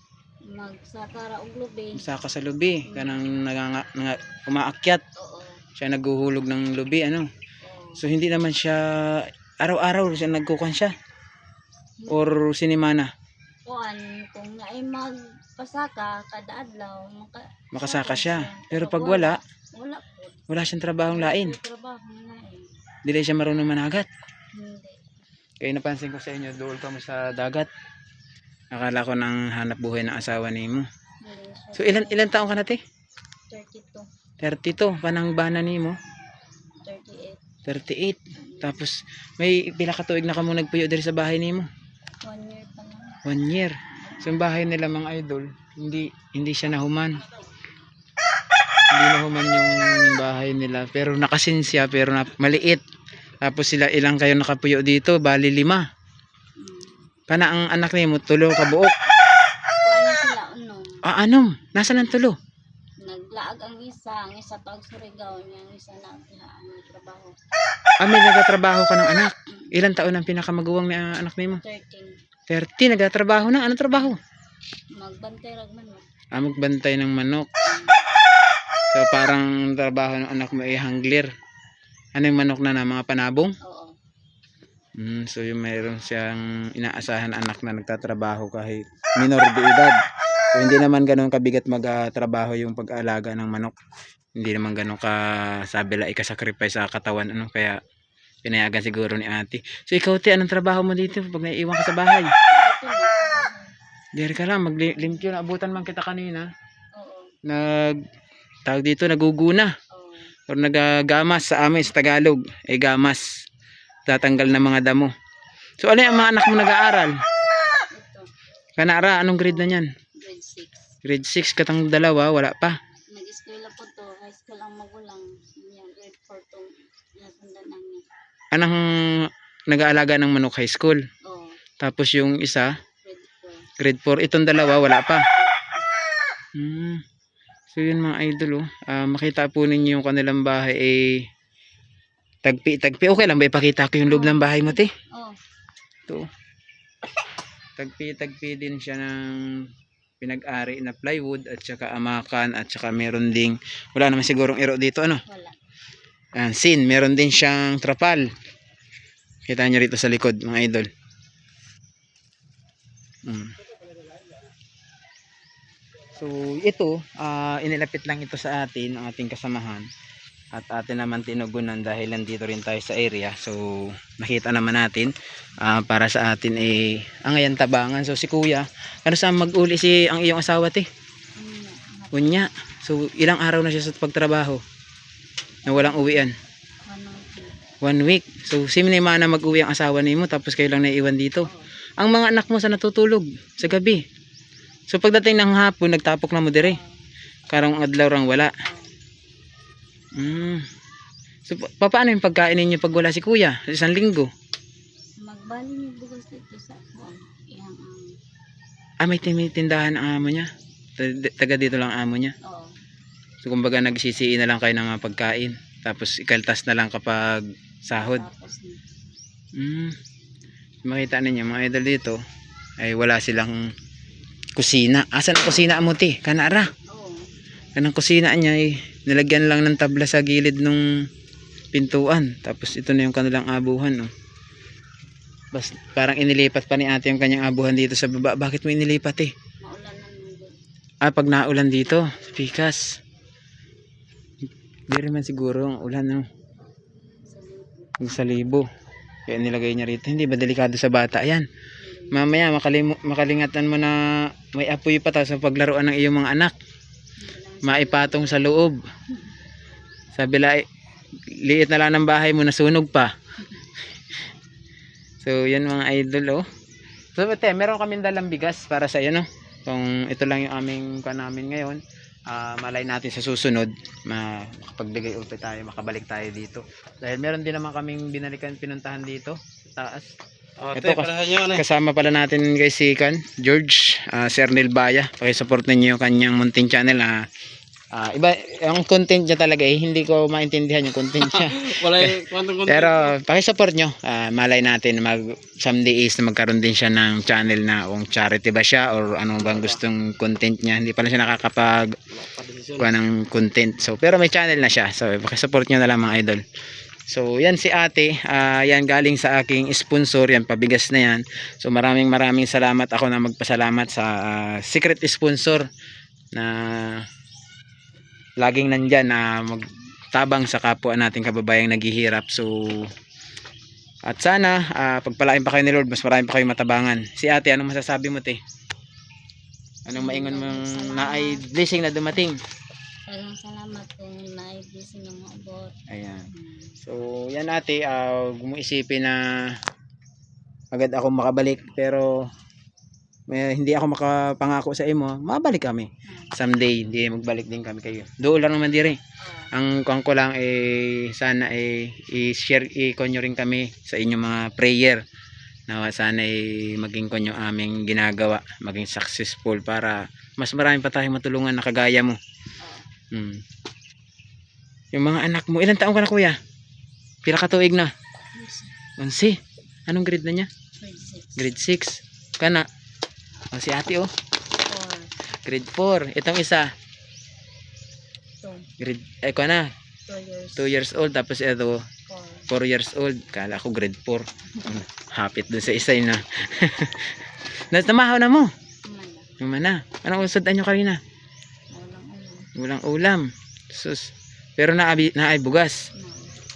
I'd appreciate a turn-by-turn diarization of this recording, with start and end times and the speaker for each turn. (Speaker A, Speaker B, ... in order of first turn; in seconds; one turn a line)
Speaker A: 0.5-2.1
Speaker B: 2.0-5.0
Speaker A: 2.9-3.2
Speaker A: 5.2-5.6
Speaker B: 5.8-7.3
Speaker A: 7.6-8.0
Speaker B: 8.0-10.9
Speaker B: 12.1-13.1
Speaker A: 13.7-20.4
Speaker B: 17.7-19.4
Speaker B: 20.5-21.6
Speaker A: 21.1-22.7
Speaker B: 23.0-24.1
Speaker A: 24.5-25.0
Speaker B: 25.6-27.7
Speaker B: 28.7-30.9
Speaker A: 31.2-32.4
Speaker B: 31.7-32.8
Speaker A: 33.5-34.0
Speaker B: 34.4-36.0
Speaker A: 36.8-37.4
Speaker B: 37.6-41.7
Speaker A: 42.2-43.2
Speaker B: 43.2-47.2
Speaker A: 44.0-44.5
Speaker B: 48.9-52.8
Speaker B: 53.4-55.8
Speaker A: 56.6-57.0
Speaker B: 57.3-58.9
Speaker A: 59.8-61.0
Speaker B: 61.0-62.4
Speaker A: 63.0-67.3
Speaker B: 68.0-71.6
Speaker A: 71.6-72.2
Speaker B: 72.5-74.2
Speaker A: 75.0-76.0
Speaker B: 76.3-77.5
Speaker A: 77.7-78.1
Speaker B: 78.9-81.3
Speaker B: 82.1-83.5
Speaker A: 83.6-83.9
Speaker B: 85.0-89.9
Speaker B: 90.5-93.8
Speaker B: 94.3-97.8
Speaker B: 98.4-102.3
Speaker A: 102.6-103.7
Speaker B: 104.2-106.5
Speaker A: 107.0-107.3
Speaker B: 107.4-108.0
Speaker B: 108.6-109.7
Speaker A: 109.9-110.3
Speaker B: 110.5-113.3
Speaker B: 114.1-115.1
Speaker B: 115.8-117.2
Speaker A: 117.9-118.2
Speaker B: 118.8-119.9
Speaker A: 120.2-120.9
Speaker B: 121.0-122.8
Speaker A: 123.1-128.0
Speaker B: 128.5-131.0
Speaker A: 131.2-131.6
Speaker B: 131.8-132.7
Speaker A: 133.0-133.7
Speaker B: 133.8-135.2
Speaker A: 135.3-135.8
Speaker B: 136.5-137.0
Speaker B: 137.7-141.2
Speaker B: 142.4-144.9
Speaker A: 144.0-145.4
Speaker B: 147.8-149.7
Speaker B: 150.2-155.2
Speaker A: 155.3-155.6
Speaker B: 156.4-158.3
Speaker B: 159.5-160.9
Speaker B: 163.2-163.5
Speaker B: 166.2-169.8
Speaker B: 170.5-180.9
Speaker A: 181.4-182.3
Speaker B: 182.1-184.6
Speaker A: 185.6-186.3
Speaker B: 185.7-186.3
Speaker A: 186.8-187.6
Speaker B: 187.8-194.0
Speaker B: 194.9-196.8
Speaker A: 196.6-197.0
Speaker B: 197.5-198.5
Speaker A: 198.6-199.0
Speaker B: 200.2-200.7
Speaker B: 201.4-204.3
Speaker A: 205.2-208.1
Speaker B: 209.0-212.3
Speaker A: 212.4-212.7
Speaker B: 213.4-218.2
Speaker A: 217.9-218.8
Speaker B: 219.5-219.9
Speaker B: 220.8-222.2
Speaker B: 222.8-223.6
Speaker B: 224.6-226.7
Speaker A: 226.9-227.2
Speaker B: 227.8-230.8
Speaker B: 231.7-234.1
Speaker B: 235.5-239.3
Speaker A: 239.6-240.5
Speaker B: 241.0-242.8
Speaker A: 241.8-242.4
Speaker B: 244.9-246.2
Speaker A: 247.3-248.0
Speaker B: 248.0-248.7
Speaker B: 249.3-251.4
Speaker A: 251.8-252.2
Speaker B: 252.1-256.5
Speaker A: 257.2-258.4
Speaker B: 257.6-258.8
Speaker B: 260.1-260.6
Speaker B: 261.3-263.1
Speaker B: 265.2-266.4
Speaker B: 267.1-280.1
Speaker C: 280.6-281.6
Speaker B: 280.7-287.1
Speaker B: 287.9-301.9
Speaker C: 291.4-292.9
Speaker C: 302.3-302.8
Speaker B: 302.8-306.4
Speaker B: 307.1-315.7
Speaker B: 316.3-317.1
Speaker B: 318.4-322.9
Speaker B: 324.1-328.4
Speaker B: 329.9-332.4
Speaker A: 329.9-331.4
Speaker A: 333.1-335.7
Speaker B: 335.9-336.3
Speaker A: 336.3-336.7
Speaker B: 336.8-339.6
Speaker B: 340.7-342.1
Speaker B: 343.3-349.0
Speaker A: 346.1-346.3
Speaker A: 349.2-349.5
Speaker B: 349.5-355.0
Speaker B: 355.7-362.2
Speaker B: 363.1-363.4
Speaker B: 364.9-366.4
Speaker B: 367.2-367.9
Speaker A: 368.3-368.7
Speaker B: 369.0-370.5
Speaker A: 370.8-371.5
Speaker B: 371.4-372.6
Speaker B: 373.5-374.1
Speaker A: 374.6-375.1
Speaker B: 375.4-376.7
Speaker A: 378.4-378.6
Speaker B: 378.8-379.7
Speaker A: 380.1-380.7
Speaker B: 380.6-381.8
Speaker A: 382.1-382.5
Speaker B: 382.5-388.5
Speaker A: 388.9-389.3
Speaker B: 389.4-391.0
Speaker A: 391.7-392.5
Speaker B: 392.6-395.8
Speaker A: 395.9-396.3